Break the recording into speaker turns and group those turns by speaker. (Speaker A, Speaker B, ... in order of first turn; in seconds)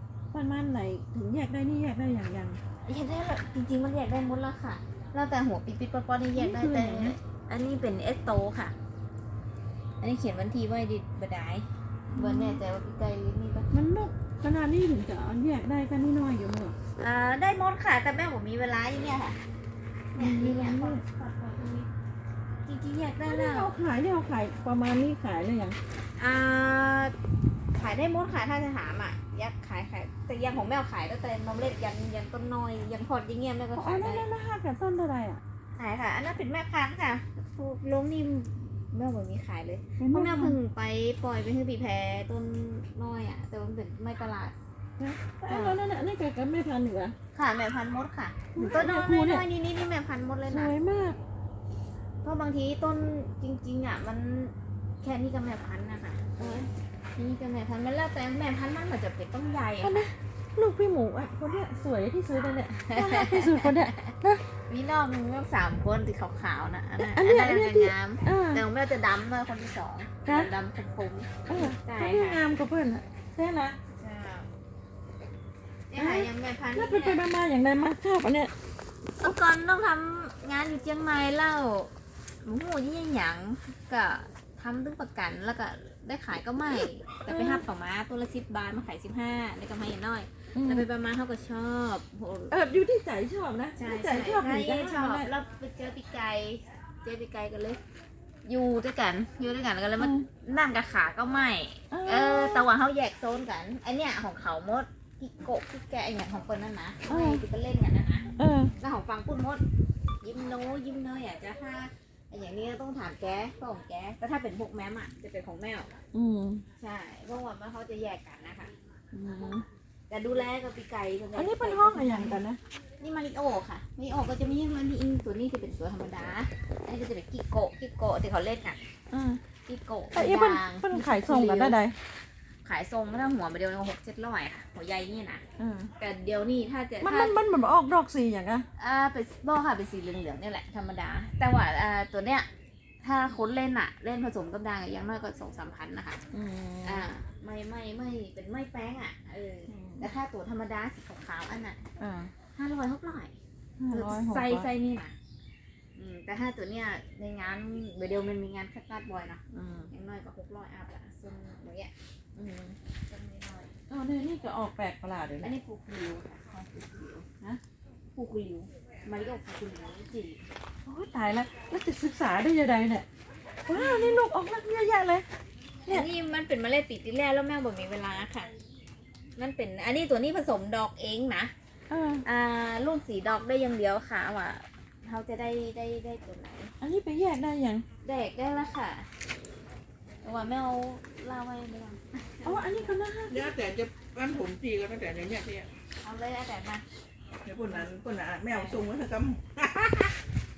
Speaker A: 0.3-2.6, 6.3-7.2, 12.1-12.6, 13.7-16.8, 20.2-21.0, 23.2-25.8, 33.7-35.4, 40.0-40.5, 45.0-47.1, 48.5-49.5, 50.5-51.2, 56.4-56.7, 59.8-64.4, 67.0-68.6, 70.2-70.5, 71.5-73.8, 76.0-78.5, 87.2-87.6, 90.5-90.9, 92.5-95.3, 100.0-100.3, 101.9-102.7, 107.1-107.4, 108.4-108.7, 116.1-116.6, 119.1-119.7, 121.3-122.6, 129.1-129.4, 130.1-132.0, 135.6-135.9, 137.0-138.6, 146.3-147.1, 149.7-150.1, 152.0-152.3, 153.8-154.7, 159.5-159.9, 163.9-165.5, 170.8-173.1, 173.7-175.3, 181.9-182.2, 186.8-187.8, 192.4-193.6
Speaker B: 2.8-8.7, 10.0-13.7, 17.0-19.4, 20.1-21.9, 22.6-23.7, 26.1-27.1, 27.7-34.2, 35.7-44.5, 45.5-45.8, 47.3-50.7, 52.2-60.1, 62.9-72.4, 73.9-74.5, 75.9-77.2, 79.2-92.5, 93.8-97.8, 98.4-109.6, 110.2-115.9, 116.8-118.7, 120.1-122.4, 123.0-128.8, 129.7-131.8, 132.6-135.4, 136.0-137.3, 138.8-142.5, 143.0-146.2, 146.8-151.8, 152.5-153.3, 153.9-155.1, 155.9-163.7, 165.4-167.3, 168.1-170.5, 173.7-174.2, 175.9-178.5, 179.3-181.5, 182.2-186.7, 188.0-189.1, 190.2-192.9, 196.0-196.8, 197.6-197.9, 198.4-198.8
Speaker C: 193.3-195.7, 197.4-200.1